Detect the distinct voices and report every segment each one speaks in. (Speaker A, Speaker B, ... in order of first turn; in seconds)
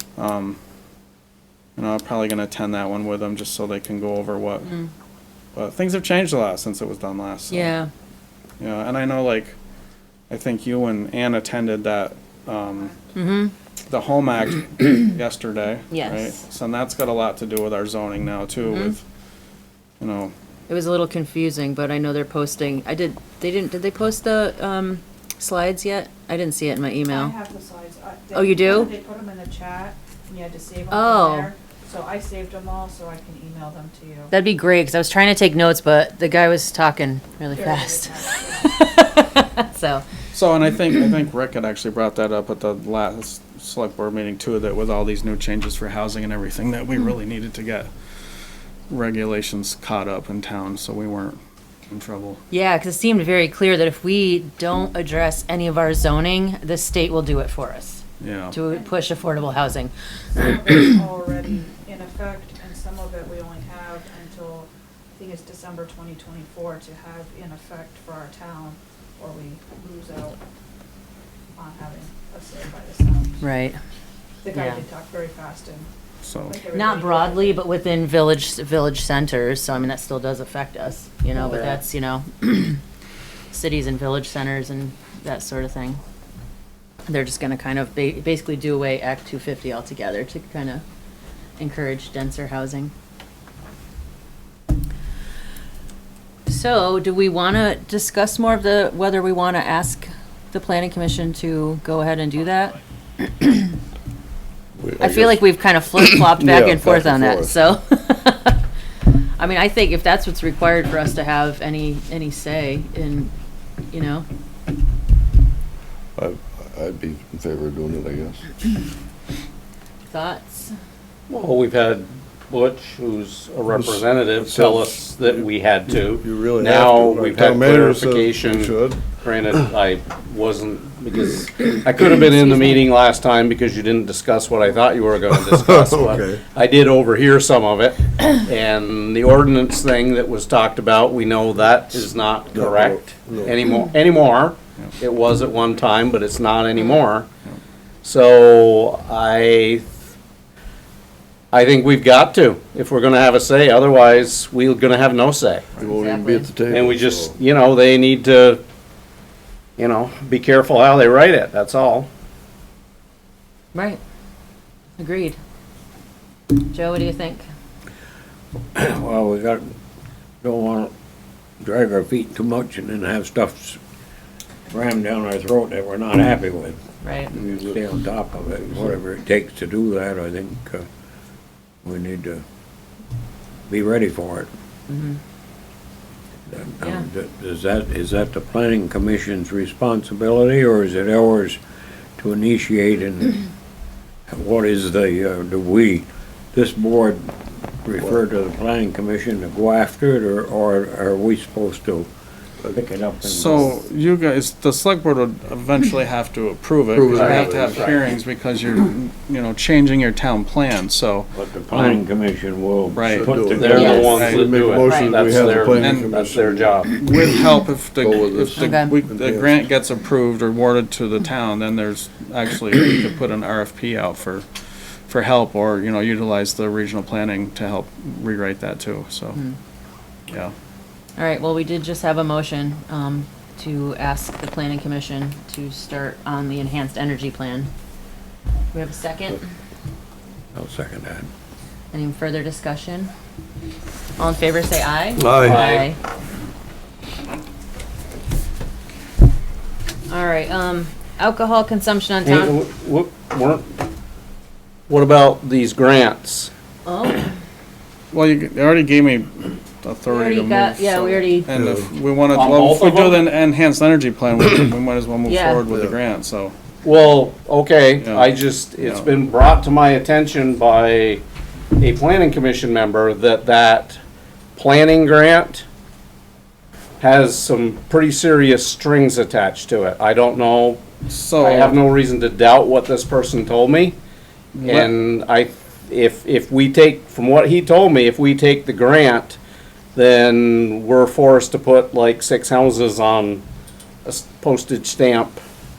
Speaker A: 0.2-0.6, 1.8-4.7, 5.5-7.8, 8.6-9.6, 10.3-12.9, 13.9-19.0, 20.0-20.3, 40.3-47.9, 48.9-52.4, 58.2-58.6, 76.2-76.6, 203.2-212.0, 212.9-214.5, 215.7-216.1, 216.9-224.5, 225.1-229.4, 258.1-266.6, 268.0-269.1, 281.1-281.8, 284.6-284.9
Speaker B: 7.5-7.9, 13.2-13.5, 15.9-16.4, 18.7-18.9, 20.7-27.3, 28.3-28.9, 30.9-31.5, 34.3-40.0, 52.5-59.9, 73.4-73.8, 74.5-74.8, 76.7-82.8, 83.5-86.0, 87.1-90.8, 91.6-92.9, 96.5-102.8, 103.3-103.7, 105.0-108.6, 109.4-113.3, 113.9-114.3, 120.1-120.7, 155.9-156.5, 163.7-164.0, 165.0-165.4, 166.5-167.4, 177.0-177.3, 184.9-185.2, 213.7-214.1, 214.8-215.2, 218.6-218.9, 231.2-237.7, 238.7-239.4, 241.9-243.1, 244.2-246.0, 250.1-252.5, 256.9-257.4, 260.1-261.5, 265.3-265.6
Speaker C: 12.6-13.0, 27.1-34.3, 37.5-39.0, 58.7-59.4, 60.4-70.4, 71.5-73.5, 74.4-75.9, 76.5-77.6
Speaker D: 81.4-81.8, 121.3-147.3, 148.0-149.9, 151.5-155.7, 156.7-158.6, 159.8-162.1, 207.1-208.0, 213.5-216.9, 245.4-245.9, 252.2-253.8, 254.9-256.5, 262.3-263.2, 266.8-271.2, 271.8-274.0, 274.6-275.6, 277.0-280.9, 281.4-284.0, 284.6-289.4, 289.9-293.4, 294.1-295.4
Speaker E: 104.8-107.7, 116.2-118.5, 123.8-129.6, 135.3-136.4, 142.5-143.6, 155.8-157.4, 177.3-177.9, 206.9-207.9, 213.1-216.9, 218.0-219.6, 245.2-245.7, 261.5-261.9, 265.7-265.9
Speaker F: 168.8-169.7, 170.4-170.9, 171.6-173.8, 174.7-176.8, 177.3-180.9, 181.8-182.4, 183.7-184.5, 186.5-191.6, 192.2-193.4, 194.3-197.3, 197.8-202.1, 202.7-203.8, 211.3-214.2, 240.5-241.3